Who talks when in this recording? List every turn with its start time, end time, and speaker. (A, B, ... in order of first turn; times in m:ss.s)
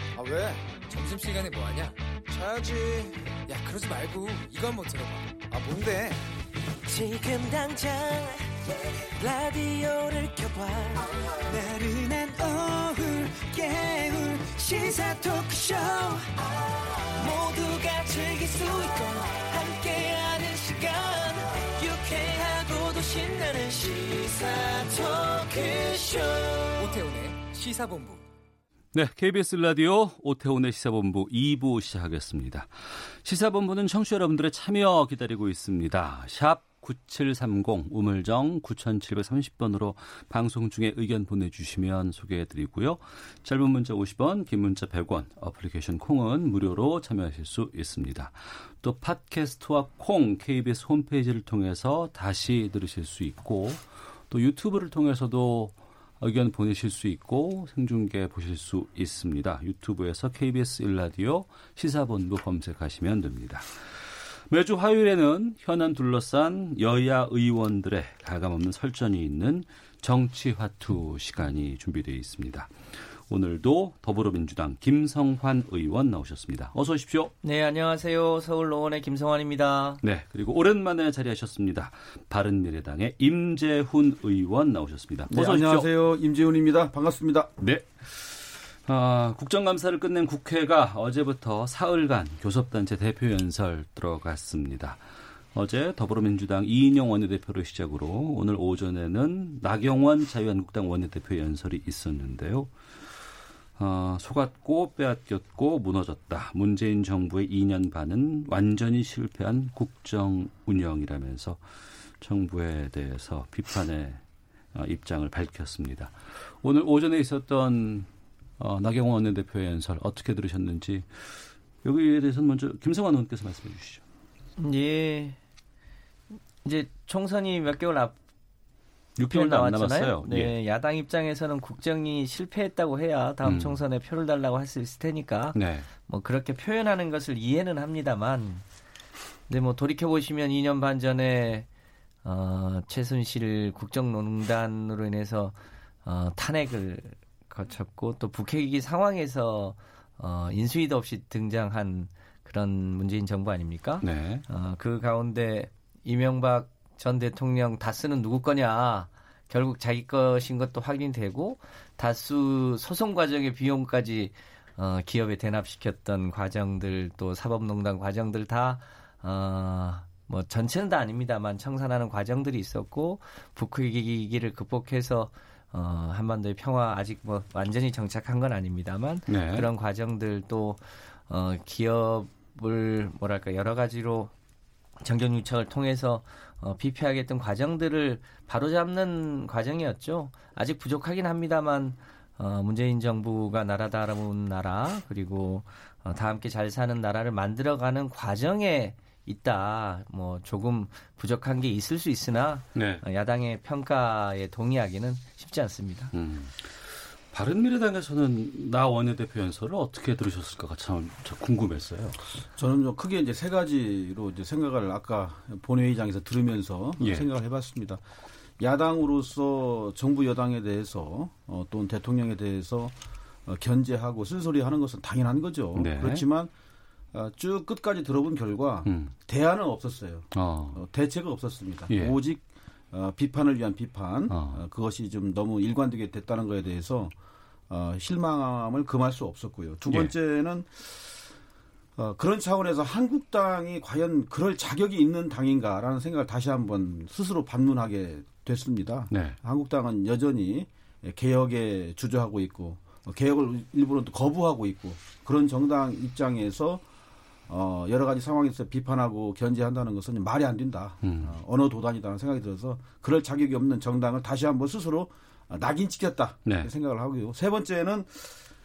0:00.1-0:00.8 A
0:00.9-0:02.0 B
0:02.3-0:03.4 A
0:03.5-0:05.4 B
0:05.5-0:06.2 A
0:06.8-0:26.9 C
0:11.5-0:11.8 A
0:26.8-0:28.2 B
0:28.9-1:17.3 D
1:17.4-1:20.0 E
1:20.0-1:25.8 D
1:25.3-1:27.5 F
1:27.6-1:35.0 D
1:35.5-1:42.7 D
1:43.8-1:51.6 D
1:52.2-1:54.2 D
1:54.7-1:58.1 D
1:58.6-2:04.0 D
2:04.6-2:05.4 E
2:06.6-2:08.2 E
2:09.2-2:10.5 D
2:09.3-2:18.6 E
2:13.4-2:13.8 D
2:15.5-2:15.9 D
2:19.5-2:21.7 E
2:22.2-3:04.3 E
2:34.0-2:34.4 D
2:59.3-2:59.7 D
3:05.0-3:26.1 E
3:22.7-3:23.0 D
3:26.1-3:32.2 D
3:32.6-3:38.0 F
3:37.0-3:37.2 D
3:38.6-3:42.9 F
3:43.4-3:46.5 F
3:45.7-3:46.2 D
3:47.1-3:57.1 F
3:48.8-3:49.1 D
3:50.3-3:50.8 D
3:54.3-3:54.6 D
3:57.7-4:01.1 F
4:02.0-4:16.8 F
4:09.1-4:09.4 D
4:17.5-4:28.4 F
4:21.0-4:21.3 D